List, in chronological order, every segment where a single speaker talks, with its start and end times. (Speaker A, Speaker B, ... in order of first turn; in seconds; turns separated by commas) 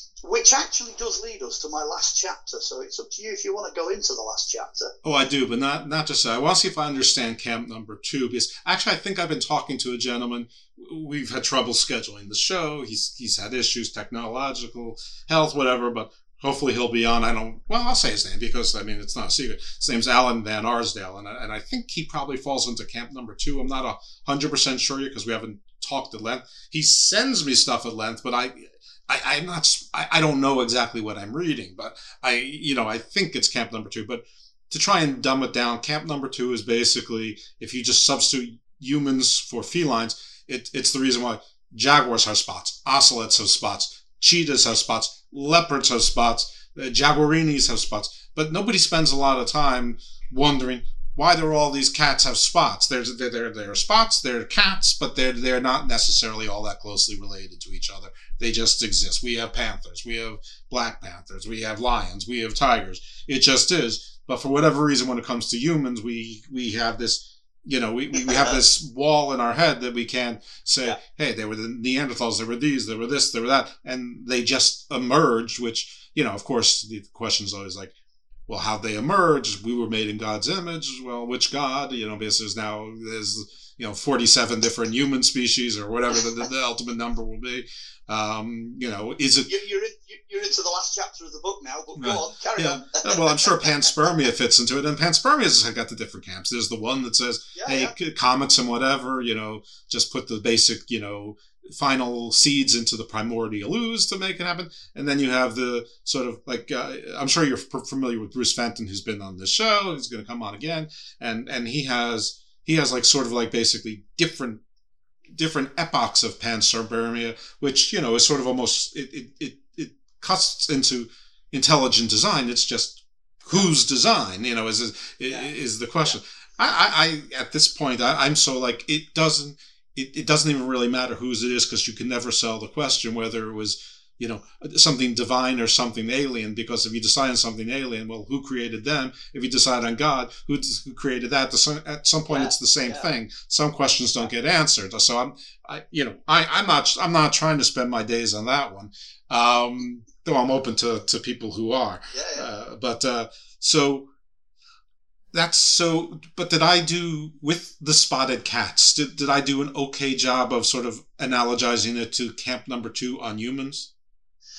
Speaker A: 0.2-4.9, Speaker B: 5.0-77.9, Speaker B: 78.5-89.5, Speaker A: 89.5-93.8, Speaker B: 92.0-114.6, Speaker A: 97.5-97.9, Speaker B: 115.3-154.1, Speaker A: 142.3-143.1, Speaker A: 152.1-152.5, Speaker B: 155.3-163.9